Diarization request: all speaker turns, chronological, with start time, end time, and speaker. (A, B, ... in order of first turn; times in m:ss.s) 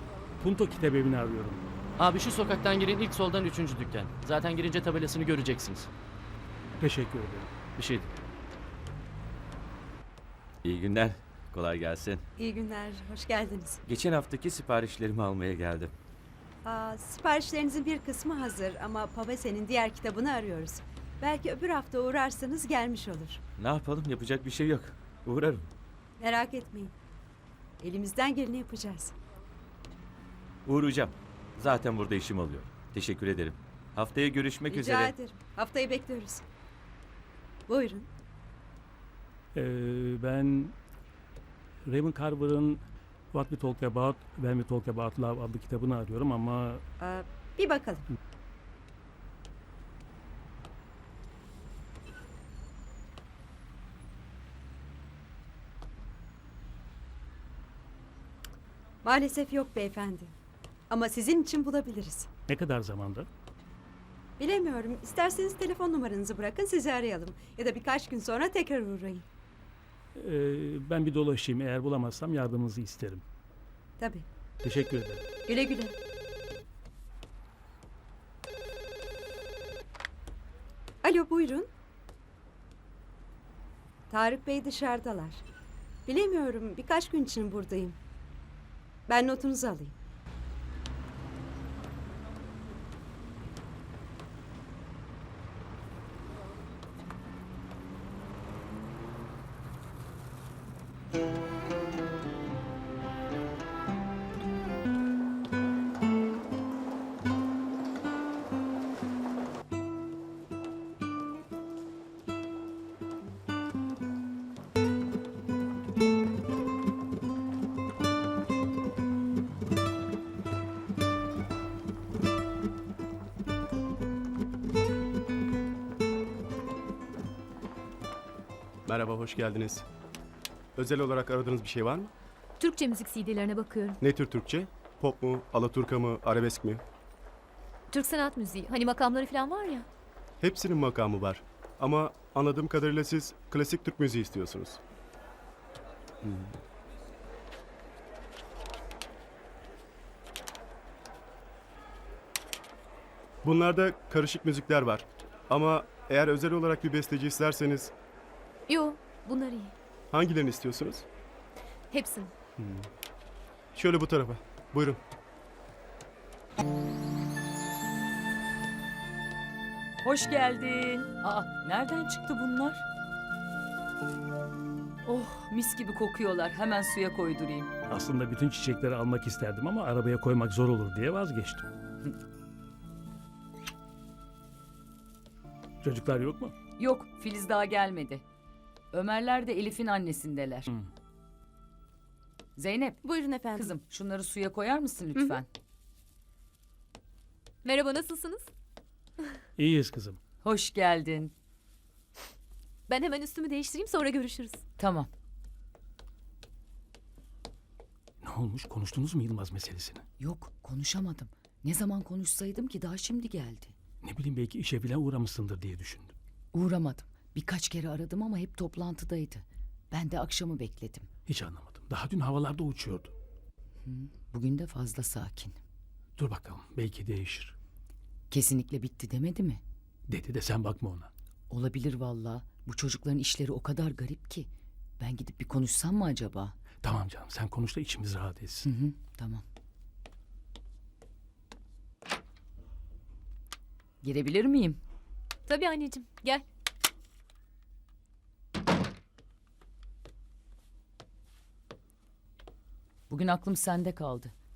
0:00.4-0:01.6 A
0:02.0-0:05.9 B
0:06.8-0:07.5 A
0:07.8-0:08.1 B
0:10.6-0:12.2 C
0:12.4-0:13.8 D
0:13.8-0:15.9 C
0:16.6-0:23.4 D
0:23.6-0:25.7 C
0:26.2-0:26.9 D
0:27.8-0:29.1 D
0:30.7-0:35.2 C
0:34.7-0:36.4 D
0:37.7-0:38.1 D
0:39.6-0:40.8 A
0:41.8-0:42.8 A
0:43.3-0:46.8 A
0:47.0-0:48.1 D
0:59.0-1:00.4 D
1:00.9-1:02.3 D
1:02.5-1:03.3 A
1:04.4-1:09.2 D
1:10.2-1:13.2 A
1:14.0-1:14.3 D
1:14.6-1:15.2 A
1:15.5-1:15.9 D
1:21.0-1:21.7 D
1:24.1-1:25.4 D
1:26.1-1:28.0 D
1:29.1-1:30.0 D
2:08.9-2:09.8 E
2:10.8-2:12.1 E
2:12.6-2:14.0 F
2:14.0-2:16.8 E
2:17.9-2:19.9 F
2:20.4-2:24.8 E
2:26.2-2:26.6 E
2:33.4-2:37.9 E
2:38.7-2:39.7 F
2:40.1-2:41.0 E
2:41.9-2:42.3 F
2:42.6-2:42.9 E
2:43.7-2:45.0 E
2:50.0-2:52.8 G
2:55.0-2:57.7 G
2:57.9-3:01.7 A
3:05.8-3:06.5 A
3:06.8-3:08.2 G
3:08.9-3:10.7 G
3:12.6-3:13.0 G
3:13.1-3:13.6 D
3:13.6-3:15.5 G
3:17.6-3:18.5 F
3:19.6-3:20.2 A
3:20.4-3:21.3 G
3:22.9-3:24.6 F
3:24.8-3:25.1 G
3:28.2-3:30.0 A
3:30.2-3:33.8 G
3:34.0-3:36.1 A
3:36.5-3:41.1 G
3:41.3-3:43.1 A
3:43.8-3:45.6 G
3:46.2-3:47.6 A
3:48.3-3:49.6 G
3:50.1-3:51.1 A
3:51.5-3:56.6 G
3:56.8-3:58.7 A
3:58.6-3:59.4 G
4:04.0-4:04.8 G
4:05.5-4:06.4 F
4:13.1-4:14.3 G